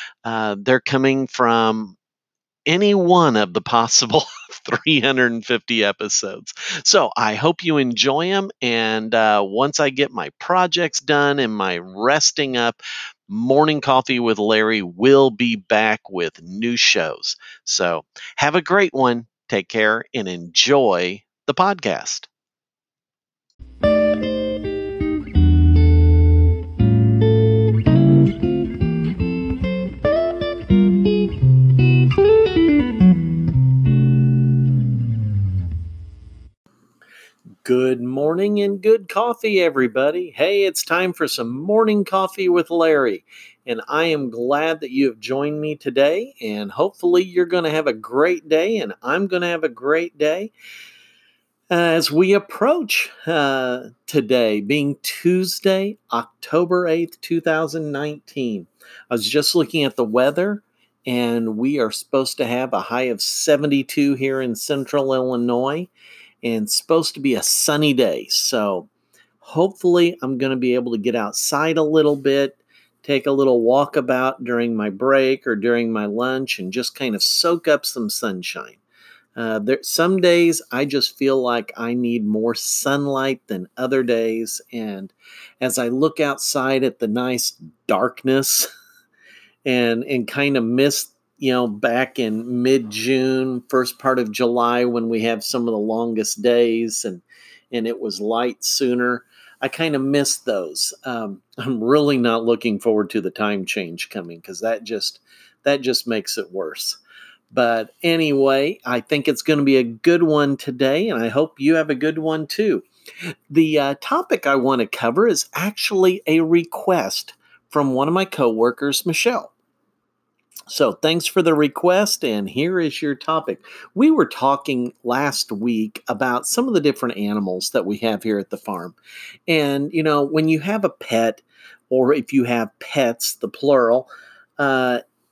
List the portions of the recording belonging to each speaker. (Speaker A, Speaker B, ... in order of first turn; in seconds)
Speaker A: 0.2-2.0, 2.7-22.3, 37.6-50.5, 51.7-65.9, 66.4-68.9, 69.4-78.8, 79.3-88.7, 89.6-107.0, 107.5-112.8, 113.5-119.5, 120.7-128.9, 129.5-135.0